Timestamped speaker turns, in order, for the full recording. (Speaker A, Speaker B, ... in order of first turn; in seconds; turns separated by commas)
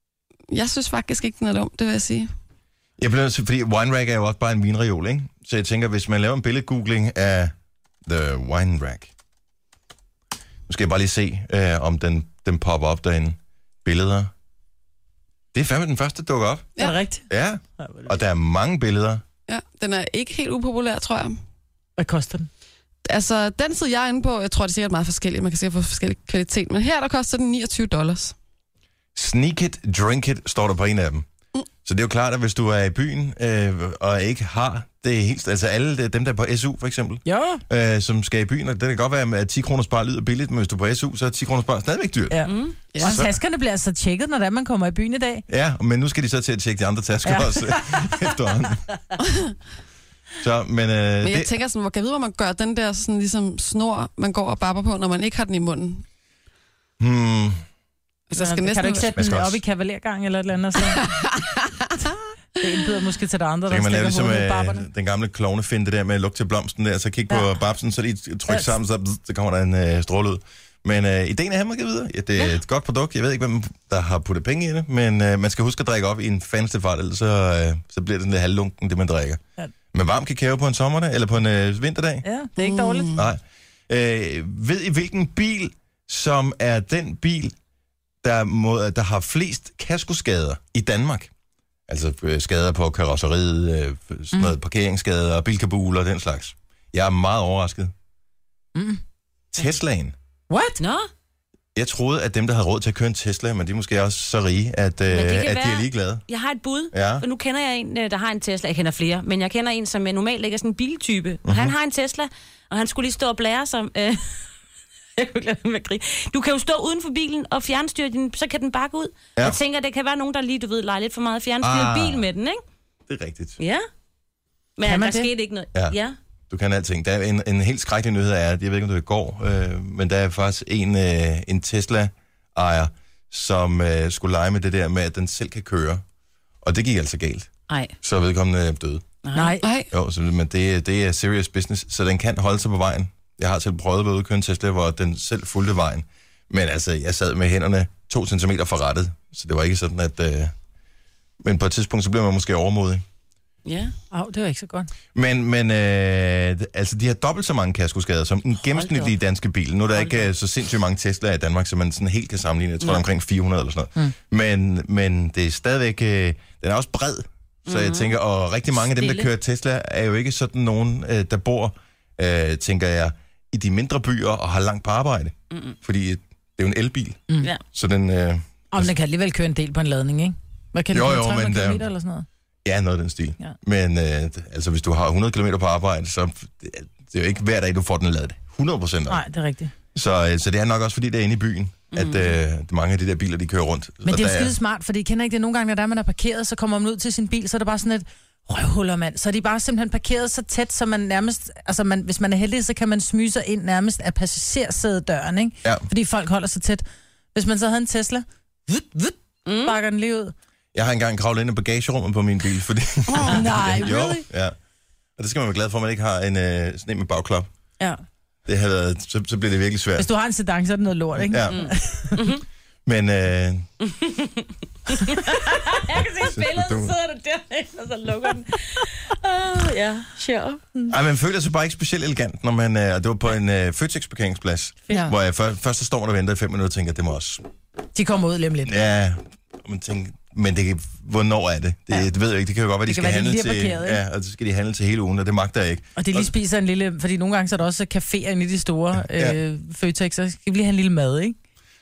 Speaker A: 0.5-2.3, Speaker B: 3.0-7.5, Speaker B: 8.1-9.1, Speaker B: 10.7-14.3, Speaker B: 15.5-16.7, Speaker C: 16.8-17.3, Speaker B: 17.3-19.2, Speaker C: 17.8-18.1, Speaker A: 19.5-21.4, Speaker C: 22.0-22.5, Speaker A: 23.1-28.3, Speaker B: 29.1-31.2, Speaker B: 31.8-43.3, Speaker C: 37.2-37.6, Speaker C: 42.3-45.4, Speaker D: 42.5-42.8, Speaker A: 42.9-43.2, Speaker B: 45.5-48.8, Speaker C: 47.2-48.3, Speaker B: 50.4-51.5, Speaker A: 51.2-56.0, Speaker B: 57.0-57.6, Speaker A: 58.3-59.1, Speaker C: 58.3-61.1, Speaker B: 59.1-59.6, Speaker A: 61.0-61.5, Speaker C: 62.6-64.8, Speaker B: 63.7-79.4, Speaker B: 79.9-82.2, Speaker C: 82.2-83.1, Speaker A: 82.6-83.2, Speaker B: 83.1-87.5, Speaker B: 88.2-91.3, Speaker B: 91.9-97.9, Speaker C: 98.7-99.0, Speaker B: 99.5-100.1, Speaker C: 100.5-100.8, Speaker D: 100.8-101.1, Speaker B: 101.7-106.2, Speaker D: 105.1-114.5, Speaker B: 106.9-107.2, Speaker B: 111.4-111.7, Speaker D: 115.2-122.6, Speaker B: 121.6-122.2, Speaker B: 123.1-123.6, Speaker D: 123.6-123.8, Speaker D: 124.8-126.2, Speaker C: 124.8-125.3, Speaker B: 126.5-136.0, Speaker B: 136.6-137.5, Speaker D: 137.7-137.9, Speaker B: 138.0-139.0, Speaker D: 139.2-139.5, Speaker C: 139.3-139.6, Speaker A: 139.6-139.9, Speaker B: 139.9-150.5, Speaker B: 151.4-153.0, Speaker D: 153.7-153.9, Speaker C: 154.1-154.9, Speaker B: 155.1-178.9, Speaker D: 158.7-159.1, Speaker D: 159.9-160.3, Speaker D: 167.7-168.1, Speaker D: 168.9-169.3, Speaker D: 175.5-175.8, Speaker C: 178.7-182.2, Speaker B: 180.9-181.8, Speaker B: 182.6-189.2, Speaker C: 189.1-189.7, Speaker B: 189.9-194.5, Speaker D: 191.9-192.3, Speaker C: 194.0-210.3, Speaker D: 209.4-209.8, Speaker B: 210.7-214.5, Speaker C: 213.1-214.2, Speaker B: 215.2-217.5, Speaker B: 218.4-220.1, Speaker C: 220.0-222.2, Speaker B: 221.2-221.7, Speaker D: 221.5-222.4, Speaker B: 222.8-223.7, Speaker D: 223.8-230.6, Speaker B: 225.9-226.9, Speaker B: 230.9-237.4, Speaker C: 237.9-238.7, Speaker B: 238.7-246.3, Speaker C: 242.8-244.0, Speaker C: 245.9-251.3, Speaker B: 249.1-249.4